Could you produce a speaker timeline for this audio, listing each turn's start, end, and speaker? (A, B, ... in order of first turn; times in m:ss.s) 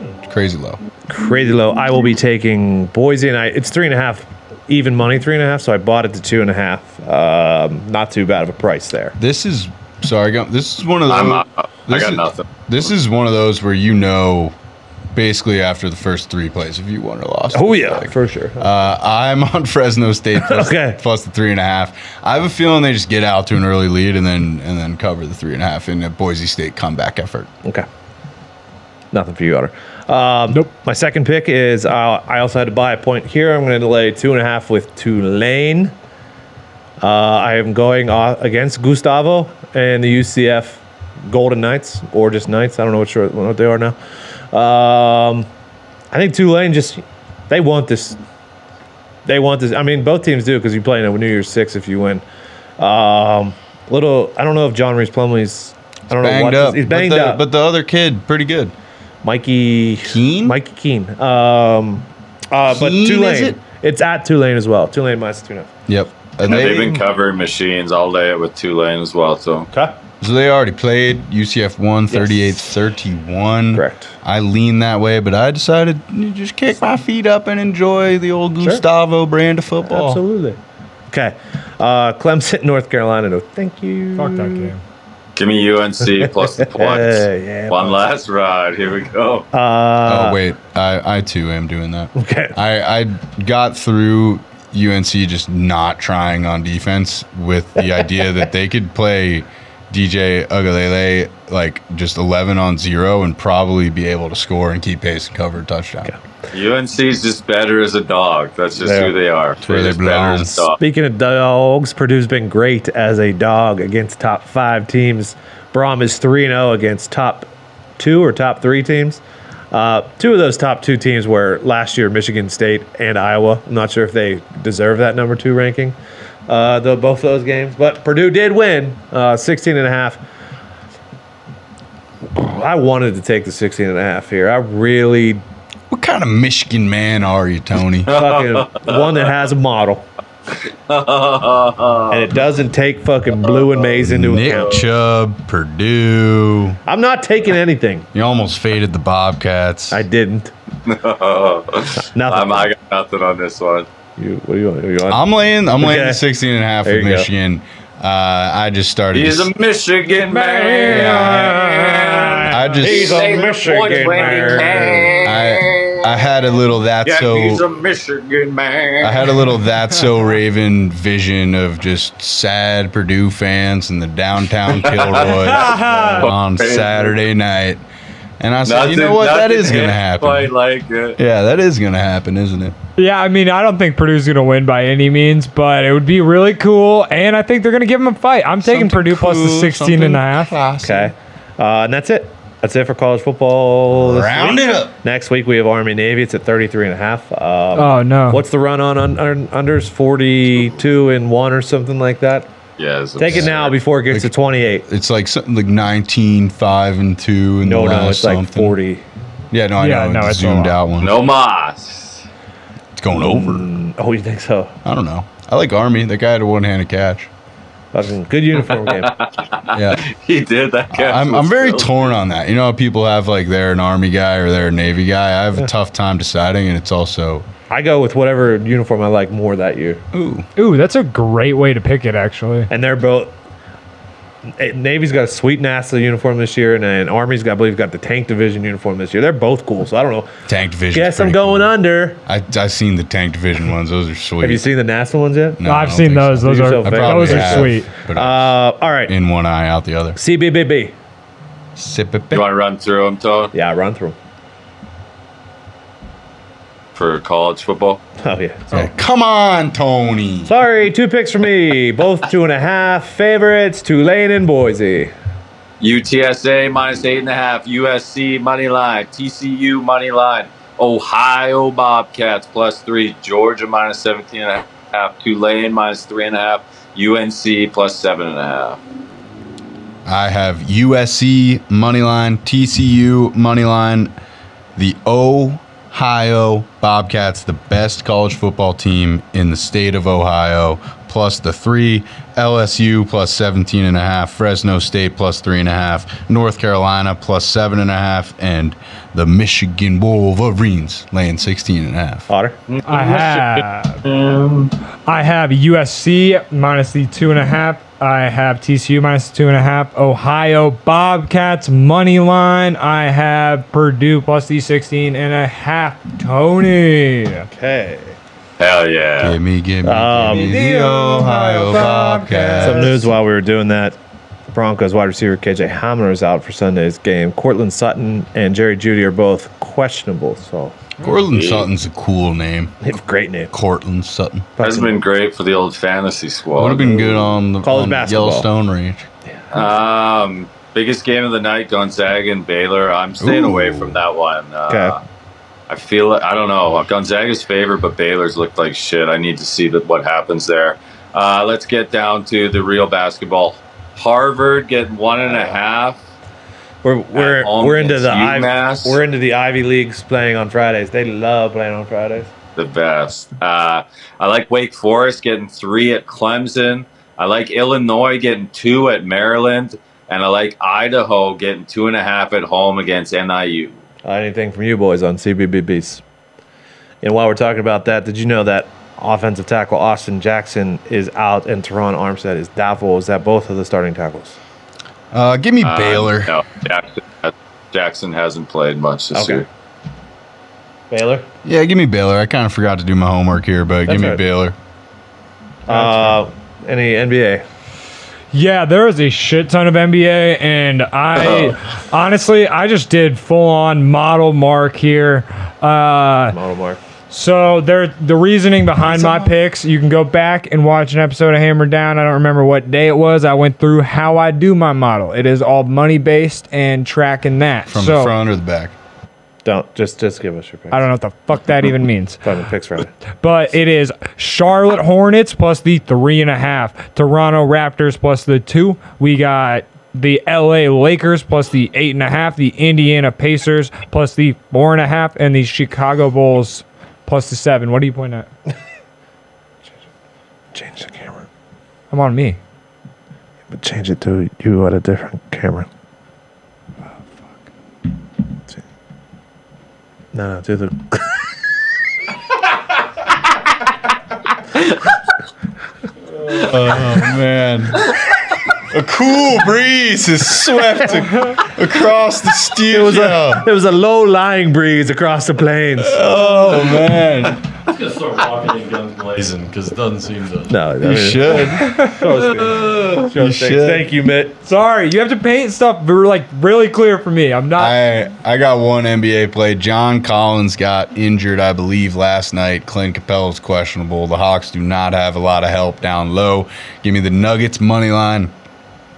0:00.2-0:00.8 A
0:01.1-0:09.2 B
0:09.2-0:14.5 A
0:11.1-0:12.5 C
0:15.1-0:27.5 A
0:17.5-0:18.7 B
0:20.4-0:21.0 B
0:29.1-0:35.9 B
0:37.0-0:44.0 B
0:44.5-0:45.5 B
0:46.1-0:48.2 B
0:49.3-0:52.2 B
0:52.8-0:57.4 B
0:56.1-0:58.7 A
0:59.2-1:05.7 B
1:00.0-1:00.6 A
1:02.7-1:03.6 A
1:05.9-1:07.0 A
1:06.4-1:09.7 C
1:10.2-1:20.2 A
1:12.1-1:12.6 B
1:13.7-1:14.1 B
1:19.9-1:20.6 B
1:21.1-1:24.7 B
1:24.2-1:24.8 D
1:25.4-1:29.5 C
1:26.2-1:28.1 B
1:29.5-1:30.4 B
1:30.0-1:46.1 A
1:32.2-1:32.6 B
1:46.5-1:50.8 C
1:48.8-1:49.1 B
1:49.6-1:50.6 A
1:50.8-1:59.2 B
1:59.7-2:06.0 B
2:06.5-2:10.2 B
2:12.3-2:15.4 B
2:15.9-2:18.1 A
2:18.1-2:19.1 C
2:18.1-2:20.1 B
2:20.9-2:22.3 C
2:22.1-2:24.8 B
2:23.5-2:23.8 C
2:24.0-2:26.8 A
2:26.9-2:28.1 B
2:28.1-2:30.0 A
2:29.9-2:30.5 B
2:30.9-2:33.9 C
2:32.0-2:32.7 B
2:34.2-2:35.3 B
2:35.1-2:39.5 A
2:35.8-2:36.2 B
2:36.8-2:37.3 B
2:39.1-2:46.3 C
2:40.1-2:42.7 D
2:40.9-2:41.6 A
2:42.5-2:43.3 A
2:42.8-2:45.2 B
2:43.8-2:45.1 D
2:45.2-2:47.6 A
2:47.0-2:49.3 C
2:49.0-2:57.8 A
2:54.7-2:55.6 C
2:55.3-2:56.3 D
2:56.2-2:57.2 C
2:58.4-3:00.5 A
2:58.6-3:01.2 C
3:01.2-3:02.8 A
3:03.0-3:10.6 D
3:08.6-3:11.1 A
3:10.8-3:22.5 B
3:14.0-3:14.9 A
3:17.8-3:18.5 D
3:22.8-3:23.8 C
3:23.2-3:24.9 B
3:24.9-3:28.8 A
3:27.6-3:29.0 B
3:29.5-3:31.2 A
3:29.8-3:30.8 D
3:31.0-3:32.2 C
3:33.0-3:33.7 A
3:33.1-3:34.7 B
3:34.8-3:37.3 A
3:37.9-3:39.1 B
3:38.7-3:42.2 C
3:39.7-3:40.0 A
3:40.9-3:47.5 A
3:47.7-3:50.0 B
3:50.1-3:50.5 A
3:50.6-3:52.7 D
3:52.7-3:53.3 B
3:54.5-4:00.3 B
4:00.5-4:01.7 A
4:00.9-4:02.2 B
4:02.2-4:04.7 A
4:04.4-4:05.6 B
4:05.6-4:10.2 A
4:05.6-4:07.9 D
4:06.4-4:09.1 B
4:10.2-4:10.9 B
4:11.8-4:12.4 A
4:12.3-4:13.5 C
4:13.5-4:14.2 B
4:17.0-4:18.0 C
4:18.2-4:18.9 B
4:18.7-4:20.5 A
4:20.4-4:25.1 B
4:25.8-4:38.8 C
4:40.1-4:44.1 A
4:44.8-5:02.3 A
5:02.3-5:02.6 B
5:02.7-5:04.8 C
5:02.9-5:04.0 D
5:05.1-5:17.5 D
5:17.5-5:18.2 B
5:18.6-5:19.4 C
5:19.2-5:23.1 A
5:19.8-5:20.6 B
5:20.3-5:23.0 D
5:22.6-5:24.0 B
5:24.5-5:30.8 B
5:31.0-5:32.9 A
5:31.3-5:31.7 C
5:32.8-5:33.5 B
5:33.5-5:34.5 A
5:34.6-5:34.9 B
5:34.6-5:36.9 C
5:36.6-5:39.1 A
5:37.6-5:38.5 B
5:39.5-5:45.0 C
5:43.2-5:44.0 A
5:44.7-5:45.0 B
5:45.7-5:56.0 C
5:56.8-6:02.3 B
5:57.1-5:59.0 C
6:02.6-6:13.8 C
6:14.0-6:16.0 B
6:17.0-6:24.4 B
6:25.1-6:26.4 A
6:25.6-6:29.5 C
6:29.1-6:29.4 B
6:30.9-6:31.3 B
6:31.4-6:34.6 A
6:33.9-6:34.2 B
6:35.7-6:37.4 B
6:35.7-6:36.2 D
6:38.3-6:46.4 D
6:46.3-6:46.8 B
6:47.1-6:58.1 D
6:57.7-6:58.8 A
6:59.4-7:00.9 B
7:00.7-7:02.3 D
7:02.2-7:03.0 B
7:03.2-7:18.3 D
7:20.5-7:21.3 B
7:21.9-7:22.4 D
7:23.5-7:25.7 B
7:30.1-7:31.3 B
7:36.3-7:37.9 A
7:38.7-7:43.5 A
7:42.7-7:46.1 B
7:45.8-7:47.4 A
7:47.6-7:50.6 E
7:50.5-7:54.4 B
7:50.8-7:51.8 A
7:52.9-7:53.9 A
7:54.4-7:57.8 D
7:57.6-8:08.3 A